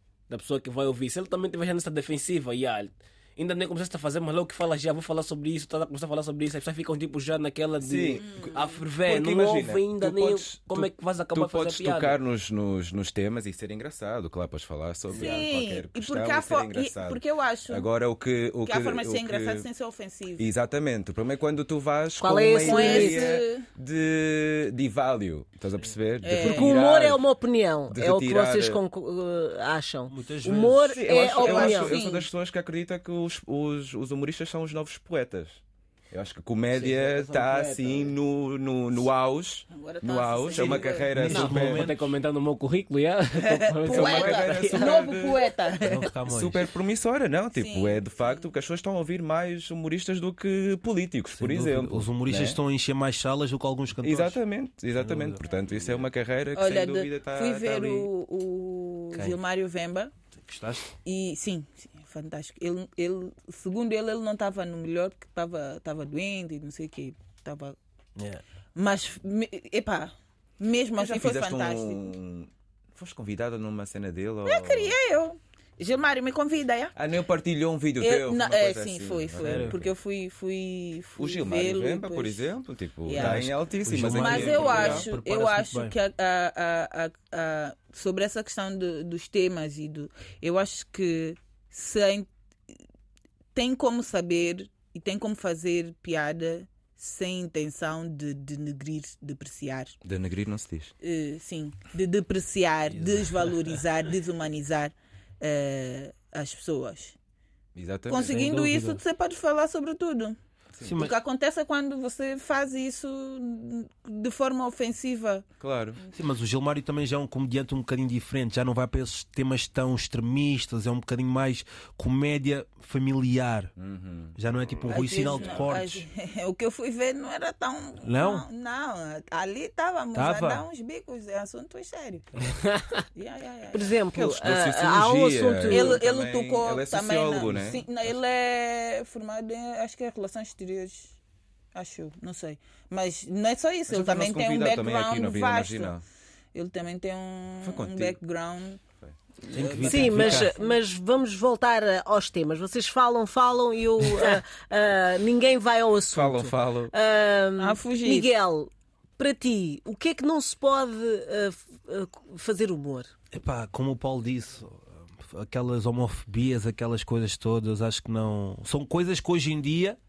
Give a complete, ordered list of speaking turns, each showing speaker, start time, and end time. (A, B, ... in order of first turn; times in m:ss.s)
0:00.3-0:12.2 A
0:07.8-0:08.5 B
0:08.2-0:08.8 C
0:09.0-0:19.7 B
0:15.1-0:17.9 C
0:15.1-0:15.4 A
0:18.6-0:20.5 C
0:20.4-0:27.2 B
0:22.2-0:23.3 D
0:22.6-0:23.7 C
0:26.2-0:26.8 C
0:26.4-0:32.0 D
0:27.9-0:28.8 B
0:30.1-0:31.0 E
0:30.9-0:41.8 B
0:31.1-0:32.3 C
0:36.7-0:38.2 A
0:39.7-0:41.5 C
0:40.5-0:42.1 E
0:41.3-0:45.0 A
0:43.4-0:46.1 C
0:43.8-0:45.5 B
0:45.8-0:46.6 E
0:46.2-0:52.6 B
0:47.5-0:48.5 C
0:51.3-0:54.4 E
0:54.0-0:58.1 B
0:55.0-0:56.0 E
0:56.5-1:00.1 C
0:59.1-0:59.4 E
1:00.3-1:00.9 E
1:01.0-1:07.8 C
1:08.2-1:08.4 E
1:08.7-1:12.1 C
1:11.0-1:14.9 B
1:14.4-1:16.9 C
1:17.0-1:19.9 B
1:18.0-1:22.5 C
1:19.4-1:19.8 E
1:21.2-1:25.1 B
1:23.0-1:32.3 C
1:23.1-1:26.0 E
1:33.5-1:39.9 C
1:40.0-1:40.9 B
1:41.0-1:47.1 C
1:42.9-1:43.4 E
1:47.7-1:48.4 B
1:48.1-1:50.4 C
1:48.2-1:49.0 E
1:50.8-1:51.1 E
1:51.0-1:55.4 C
1:55.6-1:56.0 B
1:56.1-2:03.7 E
2:03.8-2:04.4 B
2:04.3-2:06.0 E
2:04.9-2:12.3 C
2:08.0-2:08.5 E
2:10.1-2:10.6 E
2:13.1-2:14.0 C
2:13.7-2:16.0 D
2:14.1-2:17.8 B
2:15.7-2:21.2 C
2:21.7-2:25.9 C
2:23.9-2:26.0 B
2:26.5-2:28.8 C
2:27.6-2:28.2 B
2:29.4-2:30.7 C
2:29.5-2:30.5 E
2:29.8-2:43.1 D
2:36.1-2:36.9 B
2:37.6-2:38.3 C
2:43.3-2:50.0 E